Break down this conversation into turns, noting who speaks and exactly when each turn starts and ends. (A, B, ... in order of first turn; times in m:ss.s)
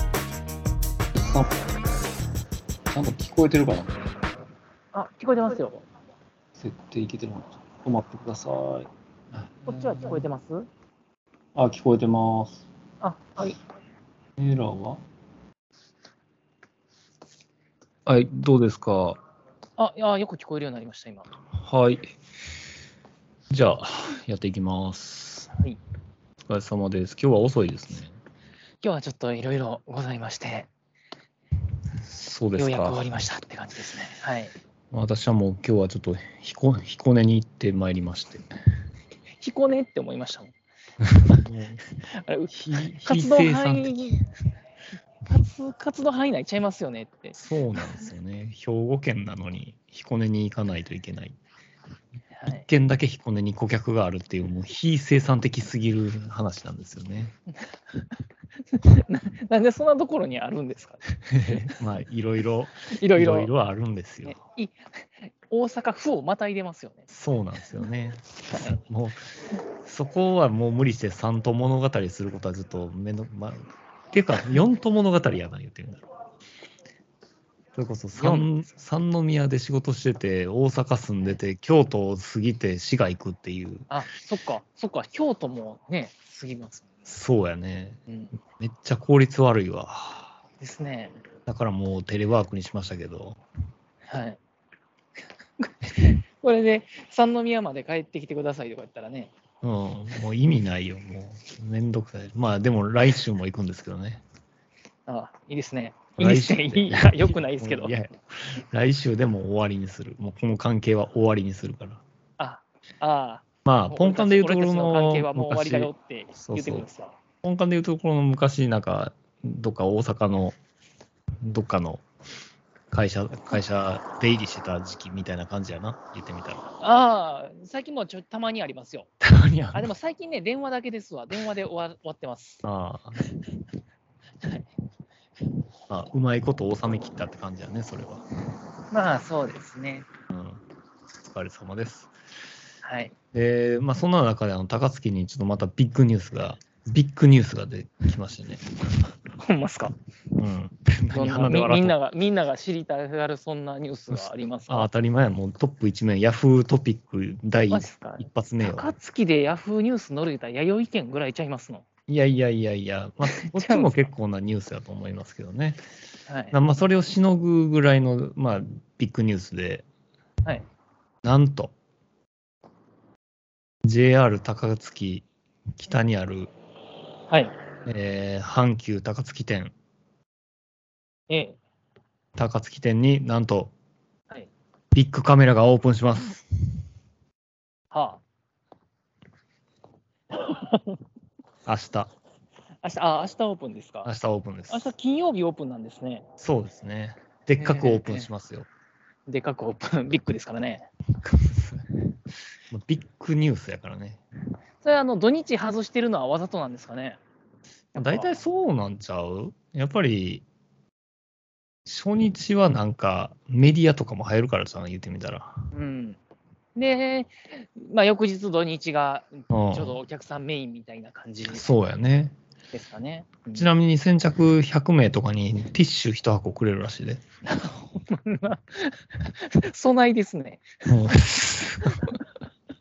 0:01.2-0:01.5 A
0:02.9-0:04.1 A
0:04.9-0:05.8 B
0:06.6-0:10.2 A
0:09.7-0:10.6 B
0:11.5-0:12.6 A
0:13.0-0:13.6 B
0:14.4-0:15.0 A
0:18.0-0:19.2 A
0:19.8-0:21.3 B
0:21.6-0:22.1 A
0:23.5-0:25.5 A
0:26.5-0:28.1 A
0:28.8-0:30.7 B
0:32.0-0:33.0 A
0:32.6-0:34.5 B
0:34.9-0:38.4 A
0:39.4-0:40.5 B
0:41.2-0:41.8 A
0:42.1-0:44.2 B
0:42.5-0:43.9 A
0:45.3-0:47.4 B
0:47.3-0:51.4 A
0:52.4-0:52.7 B
0:52.5-0:57.3 A
0:58.7-1:01.6 B
1:01.3-1:04.4 A
1:02.9-1:03.5 B
1:04.2-1:07.1 B
1:07.1-1:09.2 A
1:08.5-1:08.8 B
1:09.8-1:16.0 A
1:17.8-1:23.9 A
1:18.2-1:18.5 B
1:23.9-1:27.1 B
1:27.1-1:28.0 A
1:28.1-1:28.3 B
1:28.6-1:30.3 A
1:30.6-1:31.1 B
1:31.5-1:33.4 A
1:34.1-1:34.4 B
1:35.6-1:39.3 B
1:39.6-1:44.2 A
1:45.1-1:47.9 B
1:46.2-1:52.0 A
1:52.4-1:57.2 B
1:53.6-1:56.8 A
1:57.4-2:00.6 A
2:01.4-2:02.0 A
2:02.9-2:06.6 A
2:06.8-2:09.1 B
2:09.2-2:09.9 A
2:09.7-2:12.6 B
2:12.6-2:13.2 A
2:14.4-2:14.7 B
2:15.9-2:18.2 A
2:18.9-2:20.1 B
2:20.3-2:20.6 A
2:21.2-2:22.1 A
2:22.8-2:23.1 B
2:23.3-2:28.6 A
2:29.4-2:29.9 B
2:30.4-2:31.9 A
2:31.1-2:34.9 B
2:34.1-2:38.9 A
2:37.7-2:41.8 B
2:42.1-2:45.8 A
2:43.3-2:44.1 B
2:46.3-2:46.6 B
2:46.5-2:49.8 A
2:51.2-2:51.7 A
2:53.8-2:56.5 A
2:57.3-2:57.5 B
2:57.8-2:59.7 A
3:01.3-3:01.6 B
3:02.3-3:03.7 A
3:04.9-3:06.4 A
3:07.9-3:08.2 B
3:10.3-3:11.0 B
3:11.6-3:12.1 A
3:12.8-3:14.1 B
3:14.0-3:14.9 A
3:14.7-3:16.2 B
3:16.4-3:18.7 A
3:17.6-3:18.3 B
3:19.3-3:20.9 B
3:21.2-3:21.8 A
3:22.7-3:24.2 A
3:24.8-3:27.2 B
3:27.9-3:28.4 B
3:27.9-3:30.4 A
3:31.8-3:35.6 A
3:35.7-3:36.2 B
3:36.8-3:41.6 B
3:39.5-3:40.0 A
3:41.5-3:42.3 A
3:42.7-3:43.7 B
3:43.5-3:47.2 A
3:47.4-3:51.2 B
3:50.9-3:52.1 A
3:51.9-3:52.2 B